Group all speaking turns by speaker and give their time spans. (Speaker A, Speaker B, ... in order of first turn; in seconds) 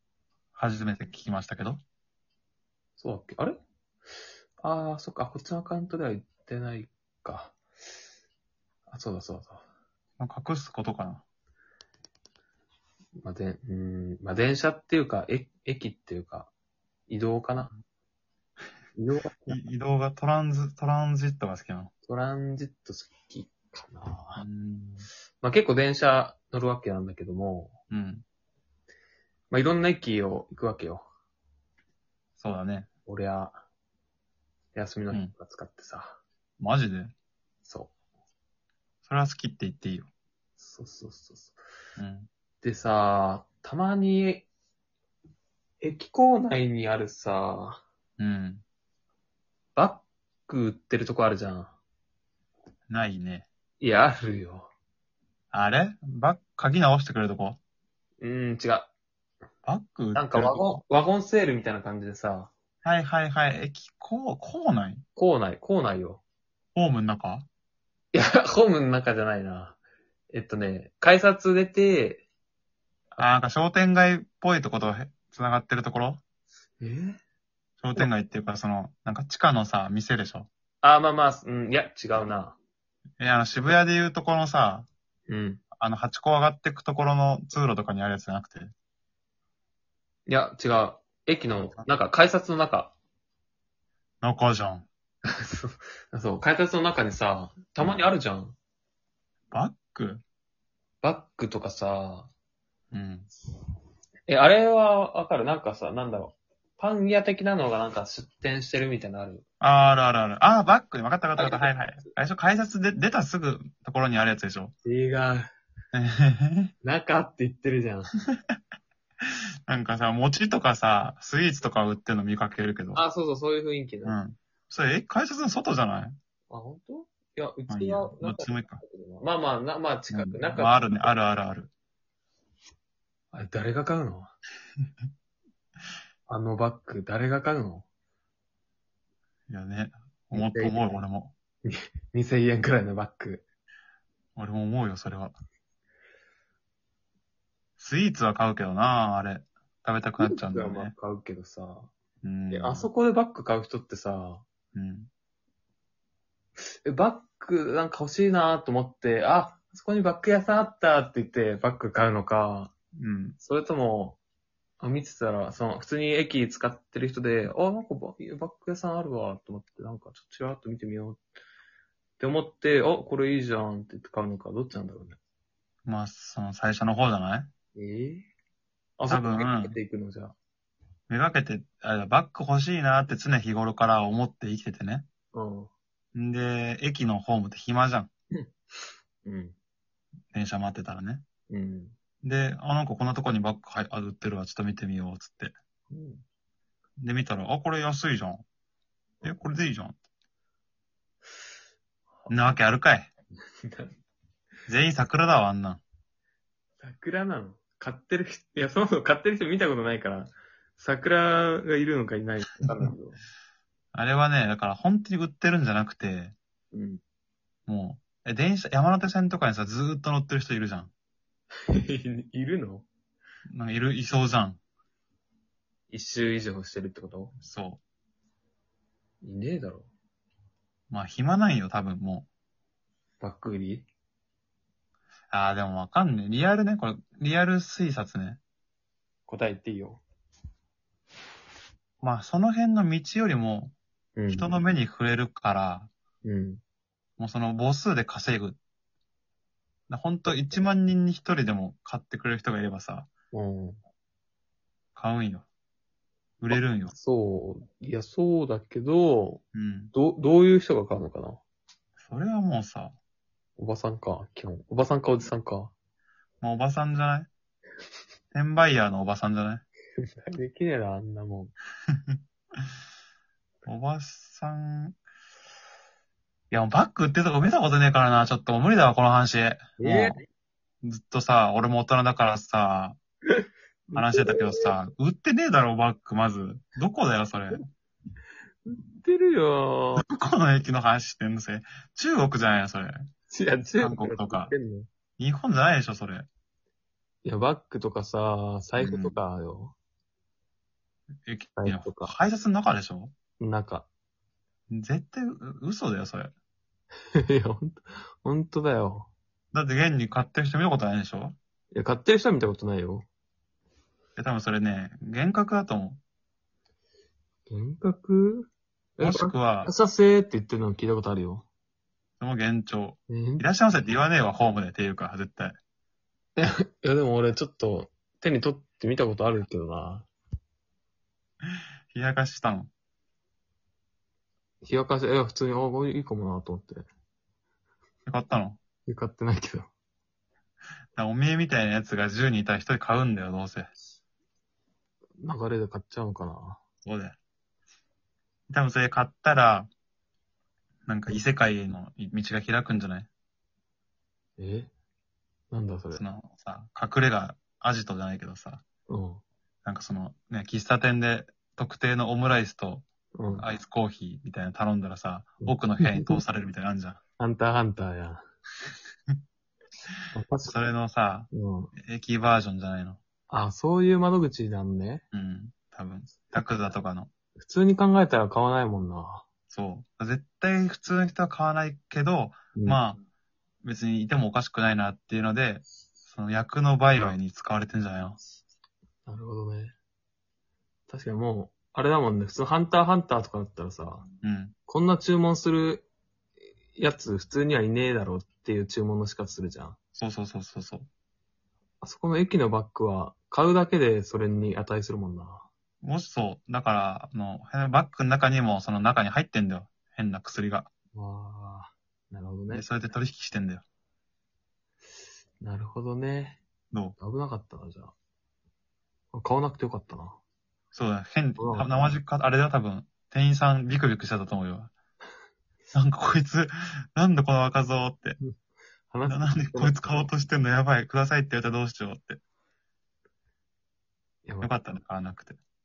Speaker A: 0.5-1.8, 10.2-11.2, 19.5-21.9, 24.4-25.1, 27.9-28.2, 32.4-32.9, 36.6-37.1, 39.0-40.1, 42.0-42.3, 48.2-48.6, 52.9-53.5, 55.5-57.6, 59.6-60.8, 62.8-65.0, 66.7-67.5, 73.2-76.2, 77.8-80.5, 83.2-84.9, 85.8-88.7, 94.2-94.9, 99.5-100.2, 102.9-103.3, 109.6-114.7, 115.9-116.7, 119.7-123.0, 124.0-126.2, 127.7-128.8, 130.1-131.7, 139.5-141.3, 144.3-145.3, 147.8-150.9, 152.2-152.9, 154.7-155.1, 162.9-163.4, 175.8-177.5, 179.1-179.7, 181.1-185.1, 186.1-188.1, 190.3-191.2, 192.2-195.5, 197.0-198.4, 199.2-200.0, 202.3-203.1, 204.7-205.8, 213.9-216.3, 217.7-220.9, 223.5-224.6, 227.4-227.8, 230.9-232.3, 235.3-238.4, 242.0-243.7, 244.3-245.9, 247.2-248.6, 249.9-253.1, 254.9-255.5, 256.4-256.9, 259.5-259.9, 262.0-262.9, 266.4-267.3, 268.3-269.6, 273.6-274.9, 276.5-280.1, 280.8-283.0, 283.9-287.6, 290.0-293.0, 293.8-294.5, 295.2-296.3, 298.8-299.2, 301.3-303.1, 304.7-306.3, 309.5-311.4, 314.2-316.0, 319.0-319.7, 322.2-325.6, 331.9-332.7, 338.1-338.6, 340.9-343.7, 346.8-347.2, 348.5-349.7, 350.9-353.1, 355.9-358.6, 359.6-362.8, 363.4-367.0, 370.4-373.0, 375.1-377.1, 379.5-383.0, 383.6-388.2, 394.2-394.5, 399.9-400.9, 405.8-410.7, 412.5-413.6, 416.7-417.0, 420.7-424.7, 425.7-428.2, 429.1-432.2, 434.4-435.4
Speaker B: 3.0-3.6, 4.6-7.5, 8.9-9.6, 13.2-16.5, 17.1-17.7, 18.9-19.6, 22.1-24.4, 25.4-27.8, 29.5-31.0, 33.1-33.6, 34.7-36.2, 37.6-37.9, 40.6-41.6, 42.6-44.5, 45.8-47.8, 49.8-51.7, 53.8-54.7, 58.2-58.9, 60.1-62.5, 65.2-66.2, 68.1-69.8, 70.3-72.2, 76.8-77.2, 80.8-82.6, 85.3-85.6, 90.3-92.9, 95.2-98.5, 101.0-102.3, 104.3-109.4, 111.4-112.0, 114.8-115.5, 116.8-118.1, 122.9-124.2, 126.5-131.1, 133.3-134.3, 136.3-137.8, 140.3-141.0, 141.6-143.4, 150.2-151.9, 152.5-154.4, 156.8-162.7, 163.4-164.2, 164.8-171.2, 172.2-175.2, 177.7-178.3, 179.0-180.3, 185.3-185.7, 189.2-189.5, 191.5-191.9, 195.9-196.2, 202.2-202.5, 203.6-203.9, 206.8-213.2, 216.7-217.0, 221.7-222.8, 225.9-227.3, 229.2-229.9, 233.2-233.9, 239.3-240.0, 244.2-244.5, 246.2-246.6, 253.3-253.8, 256.5-261.4, 263.6-265.7, 270.0-271.5, 279.8-280.2, 283.3-284.7, 288.6-290.0, 293.3-294.9, 297.2-299.7, 301.6-302.1, 303.4-303.9, 307.1-309.1, 311.7-313.0, 317.5-321.4, 323.1-323.5, 326.4-330.1, 334.6-336.9, 338.9-339.7, 345.2-346.6, 354.4-354.7, 355.5-356.0, 358.9-359.2, 363.1-363.4, 365.4-366.2, 367.2-368.2, 370.1-370.5, 371.3-371.7, 373.3-375.0, 376.3-376.7, 377.4-379.2, 382.5-382.8, 389.1-389.7, 390.9-394.1, 394.7-395.9, 396.7-399.8, 401.8-405.5, 410.9-412.6, 415.4-416.4, 417.0-417.9, 419.1-420.2, 421.4-421.9, 428.9-430.1, 434.2-434.6